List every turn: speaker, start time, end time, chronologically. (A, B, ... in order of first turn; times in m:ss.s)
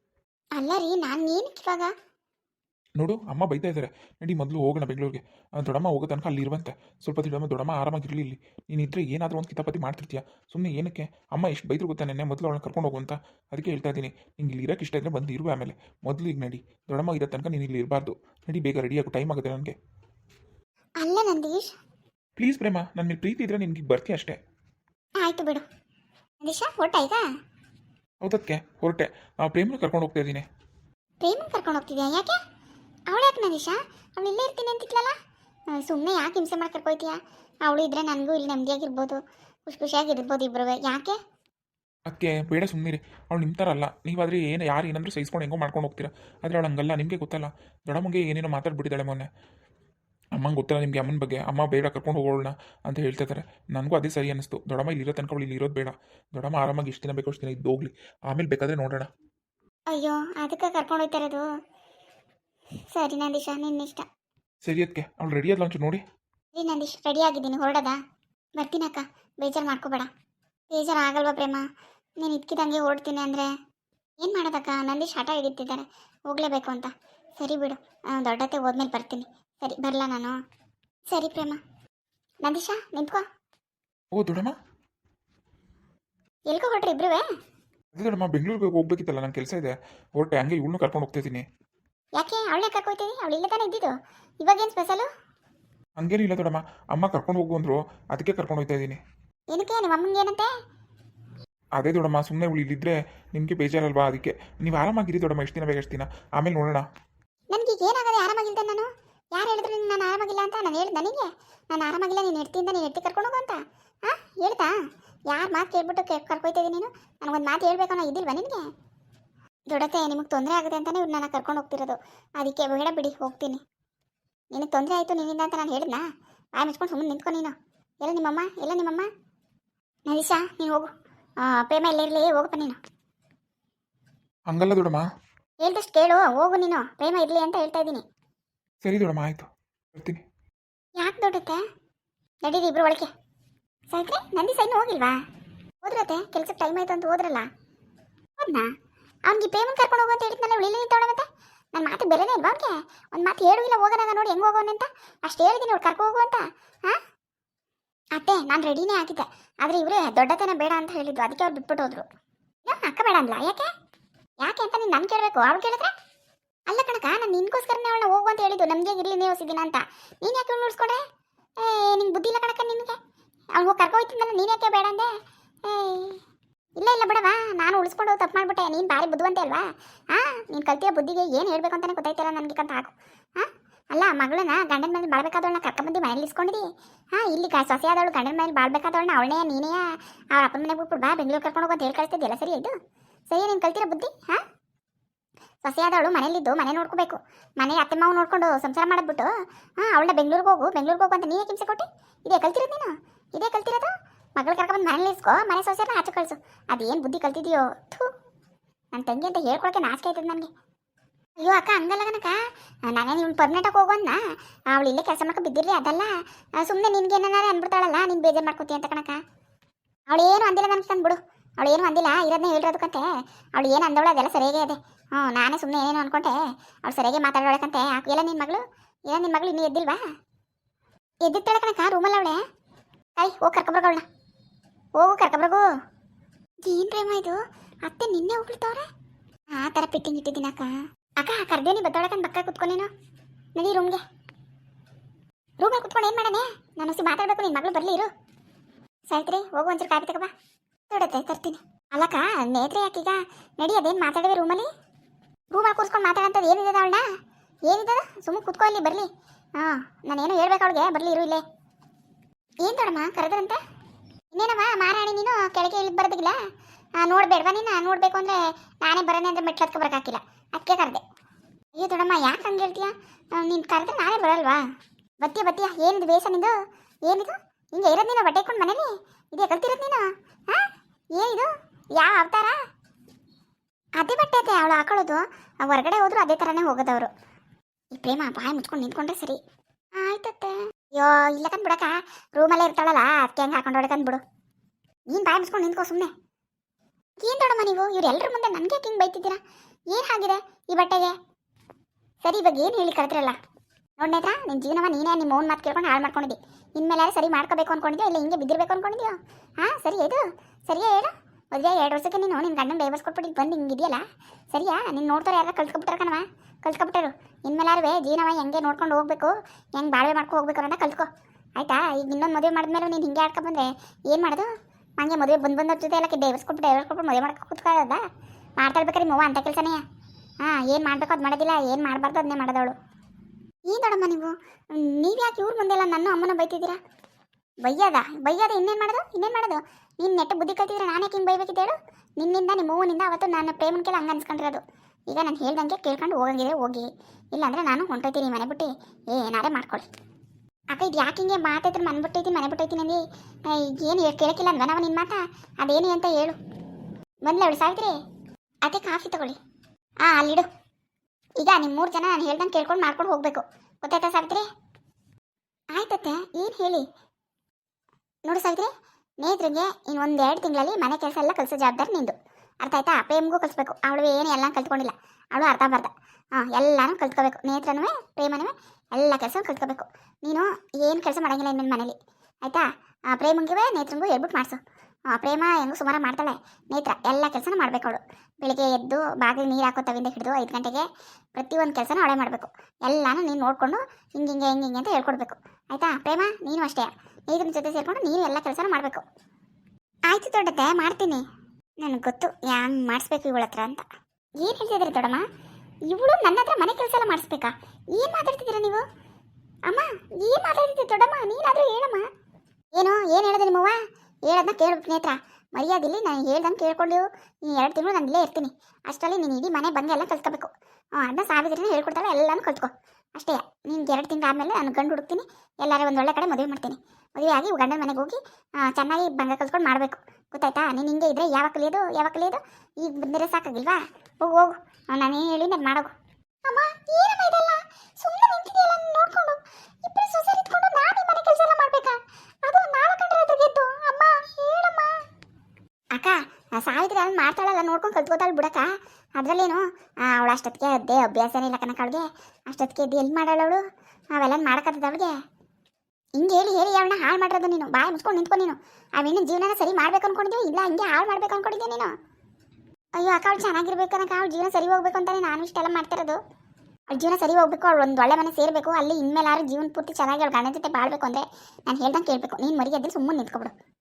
0:00.6-0:01.9 A
0:03.0-0:19.8 B
0:21.0-0:21.7 A
0:22.4-0:24.4 B
0:25.2-0:25.6 A
0:26.4-0:27.2 A
0:28.2-0:30.4 B
0:31.2-0:32.4 A
0:33.1-0:35.2 A
0:35.8-0:41.2 A
0:42.1-0:49.3 B
0:50.4-0:59.1 B
0:59.9-1:01.5 A
1:02.9-1:04.1 A
1:04.6-1:06.0 B
1:06.5-1:08.0 A
1:08.6-1:10.1 A
1:10.7-1:11.6 A
1:12.2-1:13.5 A
1:14.2-1:20.4 A
1:21.1-1:21.6 A
1:22.4-1:23.2 A
1:24.1-1:24.6 B
1:26.5-1:27.3 A
1:28.0-1:31.4 B
1:32.2-1:35.1 A
1:36.0-1:39.0 B
1:39.5-1:40.5 A
1:41.8-1:46.8 B
1:47.5-1:54.8 A
1:55.3-1:58.7 A
1:59.7-2:03.6 A
2:04.5-2:06.0 A
2:06.6-2:09.1 A
2:10.1-2:10.9 A
2:11.4-2:12.8 A
2:14.5-2:15.0 B
2:15.6-2:18.0 A
2:18.8-2:20.2 B
2:21.0-2:21.6 A
2:22.4-2:23.1 A
2:23.9-2:25.2 A
2:25.8-2:27.5 A
2:28.4-2:28.7 A
2:29.3-2:37.0 A
2:38.2-2:42.1 A
2:42.6-2:43.7 A
2:44.4-2:45.9 A
2:46.7-2:51.0 A
2:51.6-2:53.0 A
2:53.6-2:55.1 A
2:55.6-2:56.2 A
2:56.8-3:12.7 A
3:13.3-3:14.4 A
3:15.6-3:28.1 A
3:28.9-3:30.5 A
3:31.4-3:39.2 A
3:40.1-3:50.0 A
3:51.2-3:52.4 A
3:53.2-3:54.0 A
3:55.0-3:55.7 A
3:56.6-3:58.9 A
3:59.5-4:02.9 A
4:03.6-4:04.0 A
4:05.6-4:08.1 A
4:09.1-4:10.3 A
4:10.9-4:14.7 A
4:15.5-4:17.0 A
4:17.7-4:21.4 A
4:22.6-4:23.6 A
4:24.3-4:26.4 A
4:27.0-4:31.0 A
4:31.7-4:34.6 A
4:35.2-4:36.6 A
4:37.1-4:42.6 A
4:44.0-4:47.1 A
4:47.9-4:49.4 A
4:50.0-4:54.2 A
4:55.1-4:56.1 A
4:57.2-5:01.1 A
5:02.2-5:03.4 A
5:04.0-5:28.0 A
5:28.6-5:29.8 A
5:30.4-5:32.8 A
5:33.7-5:36.8 A
5:37.6-5:49.9 A
5:50.7-5:56.4 A
5:57.2-5:58.0 A
5:58.6-5:59.4 A
6:00.0-6:00.5 A
6:01.4-6:04.4 A
6:05.7-6:06.8 A
6:08.2-6:08.7 A
6:09.2-6:39.0 A
6:40.1-6:41.2 A
6:41.8-6:43.9 A
6:44.4-6:45.2 A
6:45.9-6:48.8 A
6:49.7-6:52.1 A
6:52.8-7:15.9 A
7:16.4-7:25.0 A
7:25.9-7:33.6 A
7:34.1-7:35.2 A
7:36.2-7:41.9 A
7:43.0-7:46.2 A
7:46.9-7:53.6 A